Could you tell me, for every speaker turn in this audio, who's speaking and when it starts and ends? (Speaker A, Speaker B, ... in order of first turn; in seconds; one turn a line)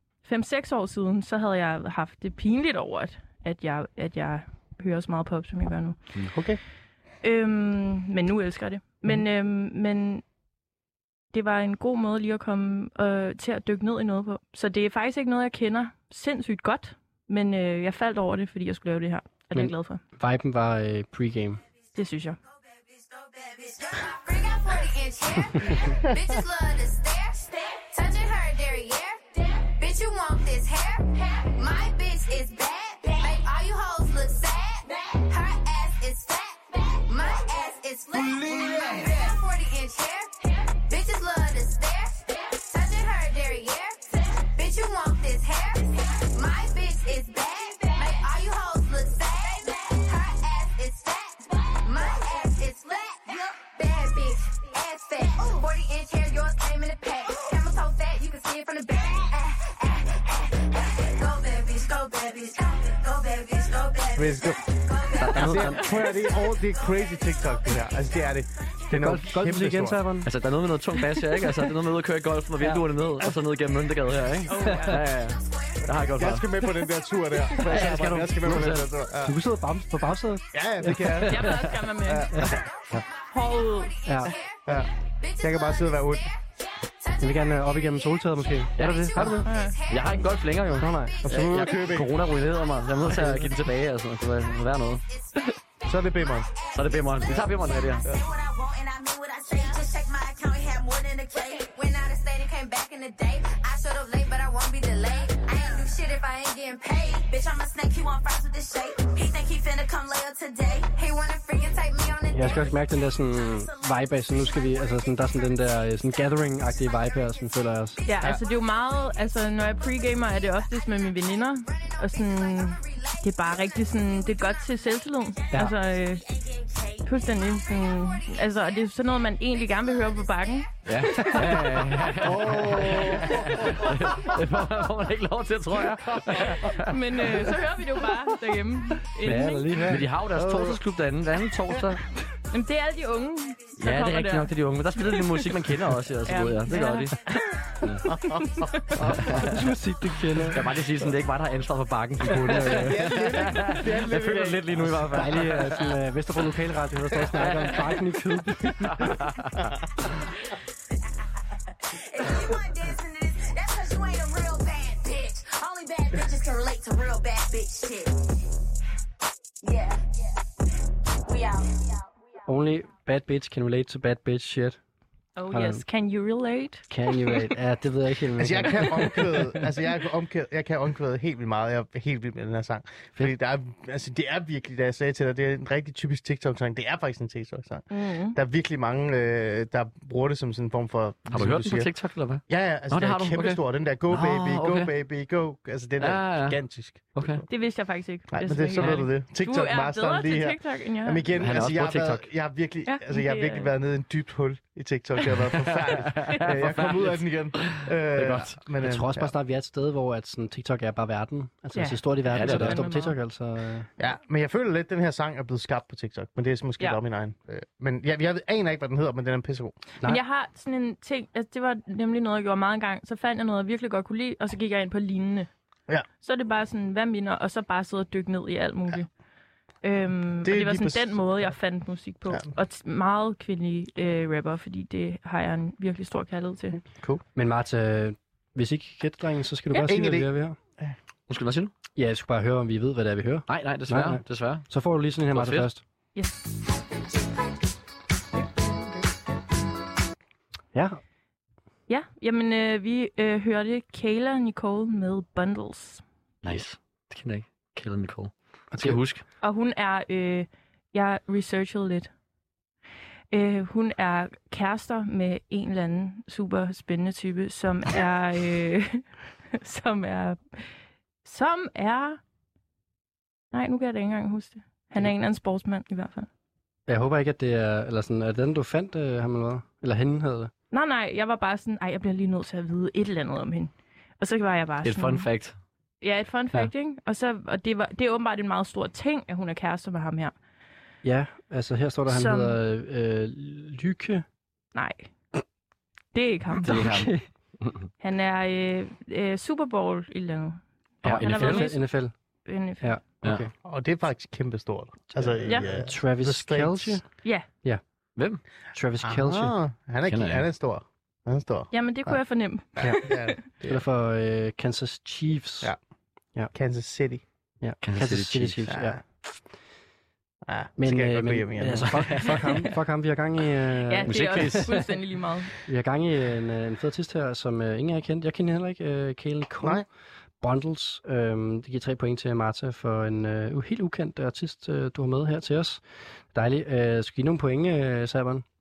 Speaker A: 0.2-6.0
Speaker B: 6.3-6.6
Speaker A: 7.2-10.2
Speaker A: 11.3-20.0
Speaker C: 19.5-21.6
Speaker A: 21.9-22.4
Speaker D: 22.9-67.8
Speaker B: 38.4-38.7
Speaker B: 64.2-64.6
Speaker E: 65.2-65.8
Speaker B: 65.3-70.0
Speaker C: 68.9-70.3
Speaker E: 70.3-76.5
Speaker A: 74.5-75.0
Speaker D: 75.2-76.3
Speaker B: 76.2-79.4
Speaker C: 77.7-81.6
Speaker E: 78.4-78.8
Speaker B: 80.5-82.6
Speaker A: 81.3-82.3
Speaker C: 82.3-83.0
Speaker D: 82.5-91.7
Speaker A: 83.3-84.0
Speaker C: 84.0-84.3
Speaker B: 85.4-86.3
Speaker C: 87.2-89.5
Speaker E: 88.8-95.0
Speaker A: 89.4-89.8
Speaker C: 90.7-91.2
Speaker B: 91.2-92.2
Speaker D: 92.4-93.0
Speaker C: 93.1-93.5
Speaker D: 95.1-95.6
Speaker B: 95.9-96.5
Speaker D: 96.1-117.4
Speaker E: 96.7-98.1
Speaker C: 112.3-118.0
Speaker A: 118.0-126.2
Speaker D: 118.1-118.3
Speaker D: 120.7-124.8
Speaker D: 125.5-127.2
Speaker A: 127.0-132.0
Speaker D: 129.7-130.3
Speaker E: 130.9-137.4
Speaker B: 132.2-134.3
Speaker A: 136.8-139.7
Speaker E: 139.2-142.0
Speaker C: 139.2-140.1
Speaker B: 140.3-140.8
Speaker A: 142.5-145.5
Speaker E: 143.8-147.2
Speaker A: 146.2-147.2
Speaker A: 148.1-148.9
Speaker E: 149.0-149.4
Speaker C: 149.1-150.6
Speaker E: 150.5-155.7
Speaker C: 152.3-153.7
Speaker B: 152.5-155.5
Speaker C: 154.8-159.2
Speaker E: 157.4-157.8
Speaker E: 158.9-159.6
Speaker D: 162.0-168.2
Speaker D: 169.6-170.2
Speaker D: 171.2-172.0
Speaker C: 172.5-174.8
Speaker A: 175.4-176.9
Speaker C: 175.5-175.8
Speaker C: 176.9-179.6
Speaker B: 178.4-191.9
Speaker A: 187.9-188.4
Speaker E: 191.3-194.9
Speaker B: 192.5-197.5
Speaker E: 196.0-196.6
Speaker E: 197.2-197.4
Speaker A: 197.5-201.3
Speaker B: 198.3-209.3
Speaker E: 201.4-202.2
Speaker A: 202.8-203.7
Speaker E: 205.7-208.6
Speaker C: 208.8-213.9
Speaker A: 211.7-213.2
Speaker E: 212.3-212.8
Speaker B: 214.0-219.8
Speaker A: 220.0-225.5
Speaker A: 226.2-229.1
Speaker A: 229.8-236.8
Speaker B: 230.4-231.3
Speaker B: 236.9-237.2
Speaker C: 237.3-240.6
Speaker B: 239.8-240.9
Speaker E: 241.3-241.7
Speaker C: 242.0-245.8
Speaker E: 243.5-244.7
Speaker E: 245.3-245.7
Speaker A: 246.2-246.4
Speaker C: 250.7-251.0
Speaker A: 251.9-256.0
Speaker E: 256.4-259.2
Speaker C: 258.7-259.0
Speaker A: 259.4-262.1
Speaker A: 263.3-269.0
Speaker A: 269.6-270.6
Speaker A: 271.2-272.2
Speaker A: 273.5-276.3
Speaker C: 276.9-280.5
Speaker A: 280.7-285.3
Speaker E: 284.8-285.6
Speaker A: 286.0-290.3
Speaker C: 291.0-294.2
Speaker A: 292.1-292.6
Speaker A: 294.8-295.1
Speaker A: 296.1-296.9
Speaker C: 296.6-297.2
Speaker E: 296.6-297.9
Speaker A: 298.0-301.9
Speaker C: 301.0-302.1
Speaker E: 301.1-301.7
Speaker A: 302.5-303.0
Speaker C: 302.8-303.5
Speaker B: 303.6-307.0
Speaker C: 305.1-307.0
Speaker A: 305.5-305.7
Speaker C: 308.8-309.6
Speaker B: 309.0-312.2
Speaker E: 310.1-310.4
Speaker A: 311.7-313.4
Speaker B: 312.8-313.8
Speaker C: 312.8-313.1
Speaker C: 313.6-315.7
Speaker B: 316.5-317.2
Speaker C: 317.6-319.0
Speaker E: 317.8-318.6
Speaker B: 318.7-319.0
Speaker B: 320.5-322.0
Speaker C: 320.8-324.8
Speaker E: 321.8-322.3
Speaker A: 322.4-322.7
Speaker A: 323.9-325.5
Speaker E: 324.1-324.8
Speaker C: 325.6-329.8
Speaker C: 330.4-335.8
Speaker C: 336.3-338.4